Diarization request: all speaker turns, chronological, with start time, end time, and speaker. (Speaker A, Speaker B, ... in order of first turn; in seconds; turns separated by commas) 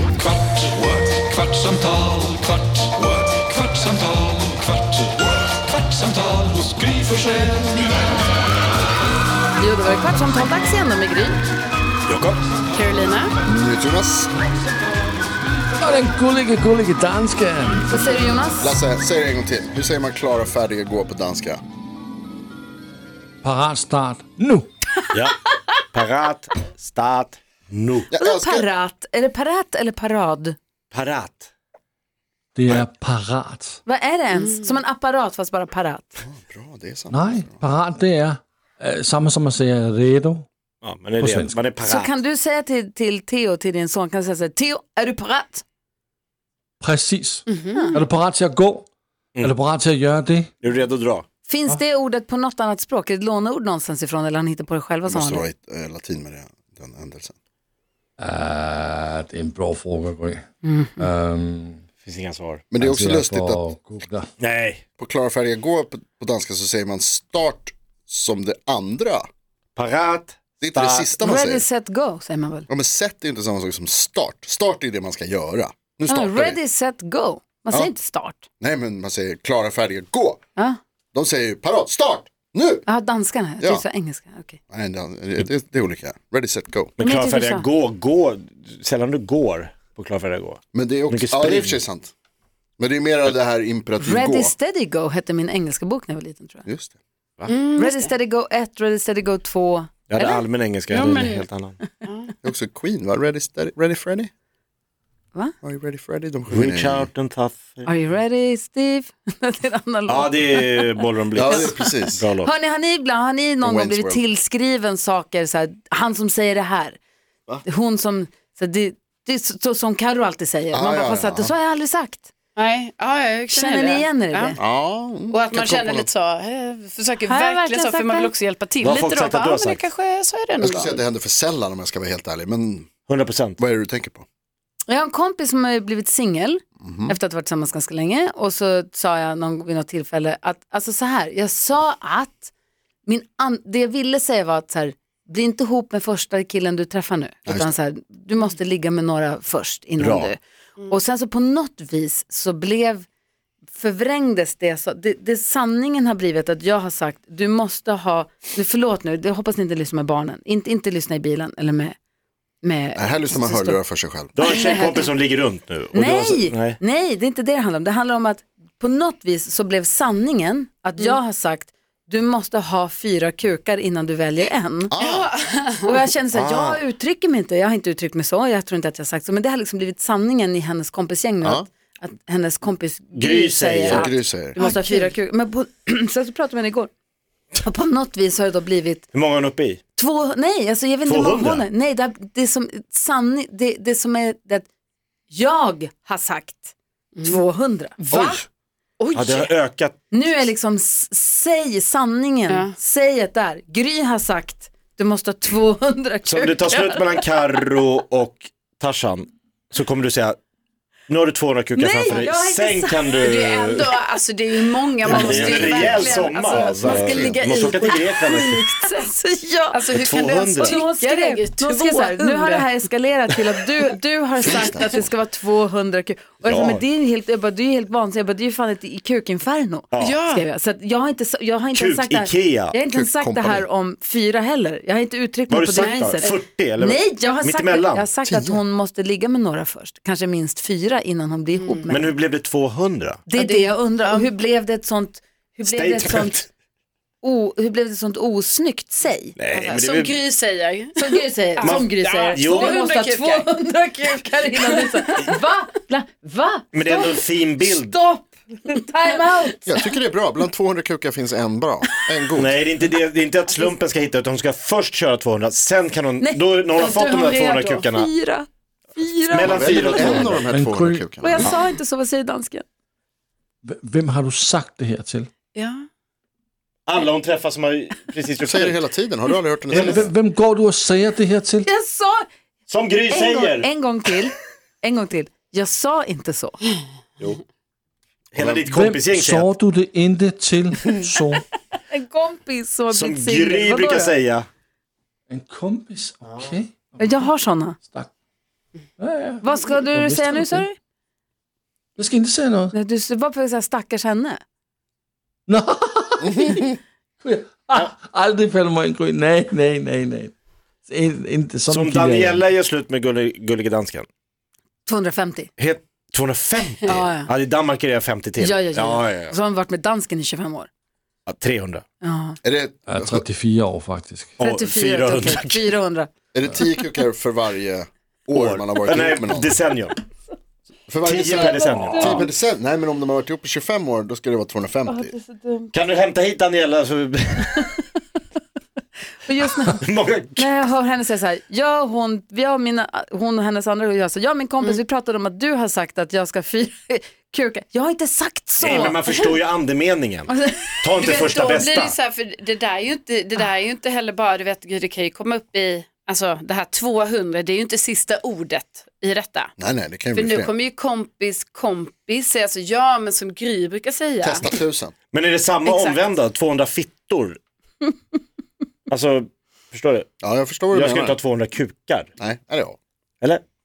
Speaker A: 0.6-7.0, Speaker B: 6.3-7.5, Speaker C: 9.6-11.4, Speaker D: 12.7-13.3, Speaker E: 13.4-14.3, Speaker B: 15.8-17.9, Speaker C: 17.9-18.8, Speaker E: 18.6-21.6, Speaker B: 23.4-24.7, Speaker F: 25.9-28.1, Speaker E: 28.1-28.7, Speaker C: 28.1-30.6, Speaker F: 30.9-31.5, Speaker B: 32.5-33.8, Speaker C: 33.9-36.2, Speaker E: 36.2-37.6, Speaker B: 37.1-40.4, Speaker F: 40.8-42.1, Speaker B: 41.2-41.6, Speaker C: 41.8-45.6, Speaker B: 46.8-48.8, Speaker D: 47.5-48.0, Speaker C: 47.7-48.0, Speaker B: 49.4-50.5, Speaker F: 50.6-51.2, Speaker C: 51.5-55.5, Speaker E: 55.1-57.3, Speaker B: 58.2-60.4, Speaker C: 60.6-61.1, Speaker B: 61.0-61.9, Speaker F: 62.0-62.7, Speaker E: 62.7-63.7, Speaker B: 62.7-64.3, Speaker F: 64.4-64.8, Speaker E: 65.0-69.3, Speaker F: 69.8-71.2, Speaker E: 70.6-71.6, Speaker C: 71.2-72.7, Speaker E: 72.7-76.6, Speaker C: 76.1-78.4, Speaker E: 78.6-80.4, Speaker E: 81.1-82.9, Speaker C: 82.9-84.6, Speaker E: 83.6-83.8, Speaker E: 84.7-86.9, Speaker F: 87.0-91.8, Speaker C: 87.0-87.7, Speaker E: 90.7-92.1, Speaker E: 92.8-94.5, Speaker C: 94.0-96.6, Speaker E: 96.6-97.0, Speaker D: 97.5-98.1, Speaker C: 97.8-100.4, Speaker F: 100.1-101.8, Speaker D: 100.9-101.4, Speaker E: 102.4-104.3, Speaker E: 105.6-107.1, Speaker F: 106.5-107.9, Speaker C: 107.8-111.9, Speaker F: 110.1-111.6, Speaker E: 111.3-112.2, Speaker F: 112.1-112.5, Speaker C: 112.4-117.0, Speaker E: 113.6-114.2, Speaker C: 117.6-122.3, Speaker E: 120.7-121.5, Speaker D: 122.5-124.6, Speaker C: 123.5-124.6, Speaker E: 124.6-126.1, Speaker D: 125.3-131.0, Speaker C: 127.2-128.3, Speaker F: 128.8-129.9, Speaker E: 130.6-132.9, Speaker F: 133.1-133.6, Speaker E: 133.6-134.2, Speaker C: 134.9-142.5, Speaker E: 136.8-137.1, Speaker C: 143.1-153.1, Speaker E: 147.5-147.7, Speaker F: 150.0-150.3, Speaker C: 153.7-161.9, Speaker C: 162.6-163.8, Speaker E: 162.9-164.3, Speaker F: 164.3-166.8, Speaker C: 164.4-165.1, Speaker C: 165.9-174.9, Speaker E: 174.9-175.3, Speaker D: 175.0-175.8, Speaker C: 175.8-186.9, Speaker F: 176.3-176.8, Speaker F: 183.1-184.1, Speaker E: 183.9-184.6, Speaker D: 184.6-185.1, Speaker C: 187.6-189.1, Speaker F: 189.1-189.8, Speaker C: 189.9-194.7, Speaker F: 191.1-191.6, Speaker C: 195.3-196.7, Speaker C: 197.2-198.4, Speaker D: 198.0-198.3, Speaker D: 199.0-199.5, Speaker F: 199.1-199.9, Speaker C: 200.1-206.7, Speaker F: 206.2-210.4, Speaker F: 211.1-213.9, Speaker C: 211.7-213.2, Speaker D: 213.2-219.0, Speaker F: 215.0-218.6, Speaker E: 215.1-217.4, Speaker C: 216.9-219.8, Speaker D: 219.7-222.7, Speaker F: 219.9-220.8, Speaker C: 220.6-242.1, Speaker E: 224.4-225.1, Speaker F: 226.4-226.8, Speaker D: 230.0-230.4, Speaker F: 231.7-232.7, Speaker E: 232.9-233.7, Speaker F: 235.5-238.1, Speaker D: 235.8-236.2, Speaker E: 238.2-238.6, Speaker D: 241.6-241.9, Speaker F: 241.9-243.2, Speaker C: 243.3-246.5, Speaker D: 243.3-244.3, Speaker F: 245.7-246.5, Speaker C: 247.2-249.3, Speaker F: 249.4-250.2, Speaker D: 249.5-253.4, Speaker C: 250.9-259.8, Speaker F: 251.6-252.8, Speaker D: 254.5-255.3, Speaker F: 256.7-257.9, Speaker E: 259.6-262.6, Speaker F: 262.4-268.1, Speaker C: 266.2-270.3, Speaker D: 266.8-267.8, Speaker F: 269.3-270.5, Speaker E: 269.4-271.5, Speaker B: 270.5-271.4, Speaker C: 271.2-272.6, Speaker B: 273.6-275.3, Speaker D: 275.5-275.8, Speaker F: 276.9-278.8, Speaker E: 278.4-280.1, Speaker B: 279.7-281.7, Speaker F: 279.7-280.0, Speaker C: 281.6-282.2, Speaker F: 282.7-283.7, Speaker C: 283.1-286.6, Speaker F: 288.3-289.5, Speaker B: 288.6-291.4, Speaker C: 291.9-294.1, Speaker F: 292.9-294.5, Speaker B: 295.3-297.3, Speaker C: 297.0-297.8, Speaker B: 297.8-298.1, Speaker B: 299.0-300.6, Speaker C: 299.4-300.7, Speaker B: 301.9-302.7, Speaker C: 302.7-304.4, Speaker B: 305.5-306.7, Speaker B: 307.2-310.3, Speaker B: 310.9-312.4, Speaker F: 311.7-314.1, Speaker C: 314.9-315.5, Speaker F: 315.6-319.3, Speaker C: 316.9-317.3, Speaker C: 318.4-320.7, Speaker F: 321.3-321.8, Speaker C: 322.0-322.4, Speaker E: 322.4-323.3, Speaker B: 322.9-324.3, Speaker F: 324.4-325.6, Speaker C: 324.4-326.1, Speaker E: 326.3-329.6, Speaker F: 328.3-329.9, Speaker E: 330.9-335.1, Speaker F: 331.0-332.3, Speaker C: 331.1-332.3, Speaker C: 334.9-335.7, Speaker F: 335.7-337.7, Speaker C: 339.2-339.8, Speaker F: 339.6-340.7, Speaker C: 340.4-349.0, Speaker F: 348.6-351.9, Speaker C: 350.3-350.7, Speaker D: 351.0-359.5, Speaker E: 359.6-360.5, Speaker D: 360.1-364.4, Speaker E: 364.2-364.9, Speaker F: 365.1-367.4, Speaker D: 365.6-366.0, Speaker F: 368.9-370.1, Speaker E: 370.2-371.2, Speaker F: 370.7-372.1, Speaker E: 372.2-372.8